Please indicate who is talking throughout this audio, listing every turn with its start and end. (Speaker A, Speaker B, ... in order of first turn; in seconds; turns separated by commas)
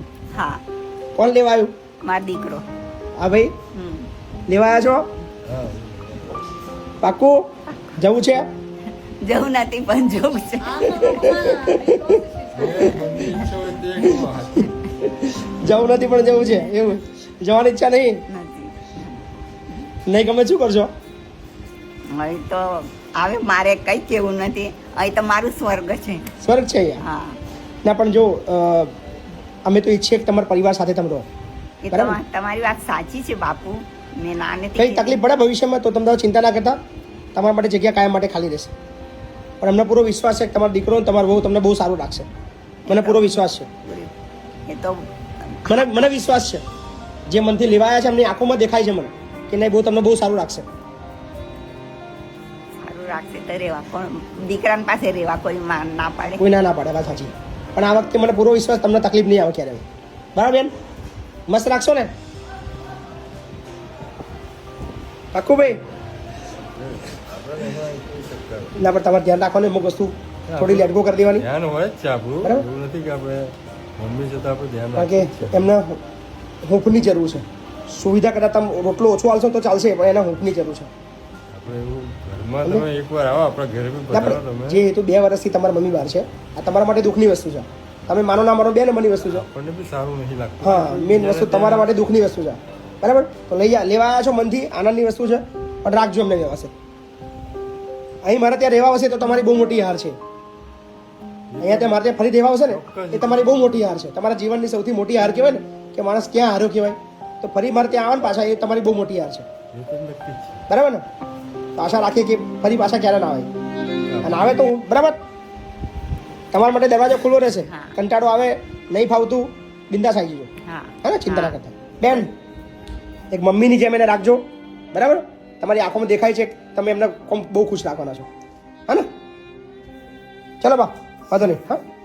Speaker A: 0.3-0.6, Speaker B: 1.1-1.7, Speaker A: 2.0-2.6, Speaker B: 3.2-3.5, Speaker A: 3.7-4.1, Speaker B: 4.5-5.1, Speaker C: 5.5-6.4, Speaker B: 7.0-8.5, Speaker A: 9.2-11.4, Speaker B: 10.8-13.1, Speaker C: 12.5-14.7, Speaker B: 15.0-18.2, Speaker A: 18.3-19.8, Speaker B: 20.1-20.9, Speaker A: 22.1-26.3, Speaker B: 26.4-27.0, Speaker A: 27.0-27.4, Speaker B: 27.8-28.9, Speaker B: 29.6-31.2, Speaker A: 31.8-35.2, Speaker B: 31.9-32.2, Speaker B: 34.8-36.8, Speaker B: 37.3-38.7, Speaker B: 39.6-42.3, Speaker A: 42.9-43.3, Speaker B: 42.9-43.7, Speaker A: 43.8-44.1, Speaker A: 44.7-46.1, Speaker B: 45.7-46.6, Speaker B: 47.3-50.6, Speaker A: 52.8-56.4, Speaker B: 56.4-59.8, Speaker B: 60.3-60.7, Speaker B: 61.5-62.1, Speaker B: 65.3-65.8, Speaker C: 66.5-68.8, Speaker B: 68.8-71.5, Speaker C: 70.5-75.7, Speaker B: 75.0-76.0, Speaker B: 76.6-80.9, Speaker C: 81.5-84.8, Speaker B: 84.1-89.4, Speaker C: 89.2-91.9, Speaker B: 90.6-96.7, Speaker B: 98.2-100.2, Speaker C: 101.5-102.0, Speaker B: 101.6-109.5, Speaker C: 102.7-103.8, Speaker C: 109.7-110.6, Speaker B: 110.7-111.0, Speaker B: 111.8-113.5, Speaker C: 114.1-114.7, Speaker B: 114.2-115.2, Speaker B: 116.5-120.5, Speaker A: 117.7-117.9, Speaker A: 120.6-121.5, Speaker B: 121.0-122.3, Speaker B: 123.3-128.3, Speaker B: 130.6-131.8